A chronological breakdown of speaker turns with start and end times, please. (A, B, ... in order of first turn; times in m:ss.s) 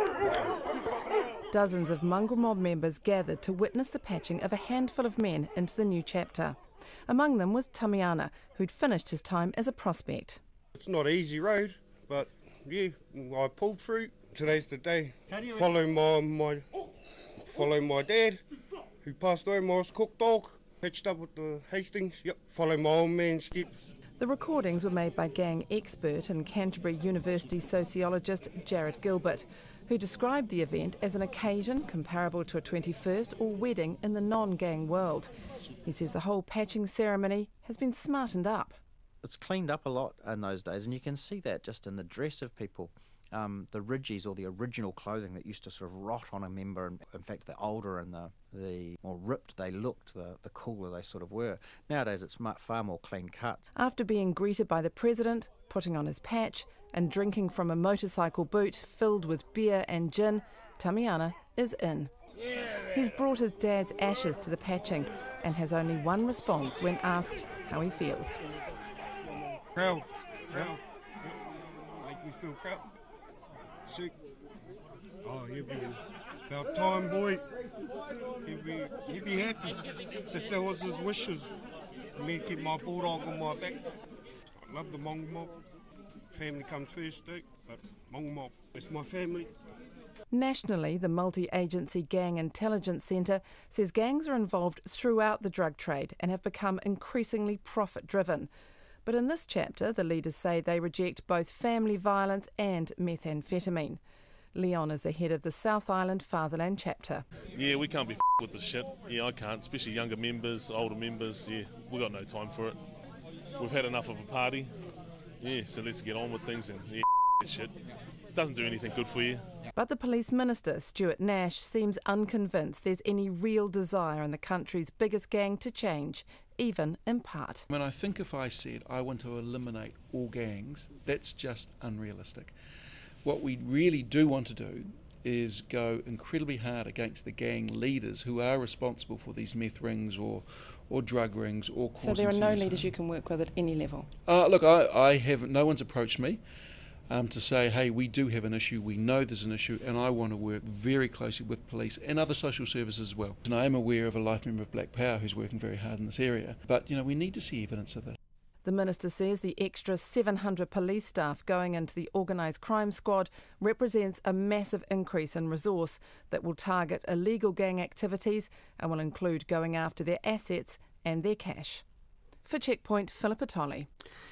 0:01.5-0:10.4 A
0:10.7-0:16.6 B
0:17.4-0:18.4 B
0:19.0-0:23.7 B
0:24.2-0:35.3 A
0:35.8-0:38.8 A
0:39.2-0:53.6 C
0:53.8-1:02.1 A
1:02.9-1:08.4 A
1:09.7-1:11.3 B
1:12.0-1:12.8 B
1:13.8-1:14.1 B
1:15.2-1:17.5 B
1:18.4-1:21.5 B
1:22.1-1:23.8 B
1:24.6-1:25.5 B
1:26.3-1:29.5 B
1:30.3-1:38.5 A
1:39.0-1:44.0 A
1:44.5-1:47.2 A
1:47.5-1:52.8 D
1:53.6-1:54.7 D
1:55.4-1:57.7 D
1:58.3-1:59.4 D
1:59.8-2:07.6 A
2:07.7-2:12.5 E
2:13.2-2:22.9 E
2:22.0-2:24.1 A
2:24.2-2:26.4 E
2:27.1-2:38.2 E
2:38.6-2:51.8 A
2:52.4-2:53.9 A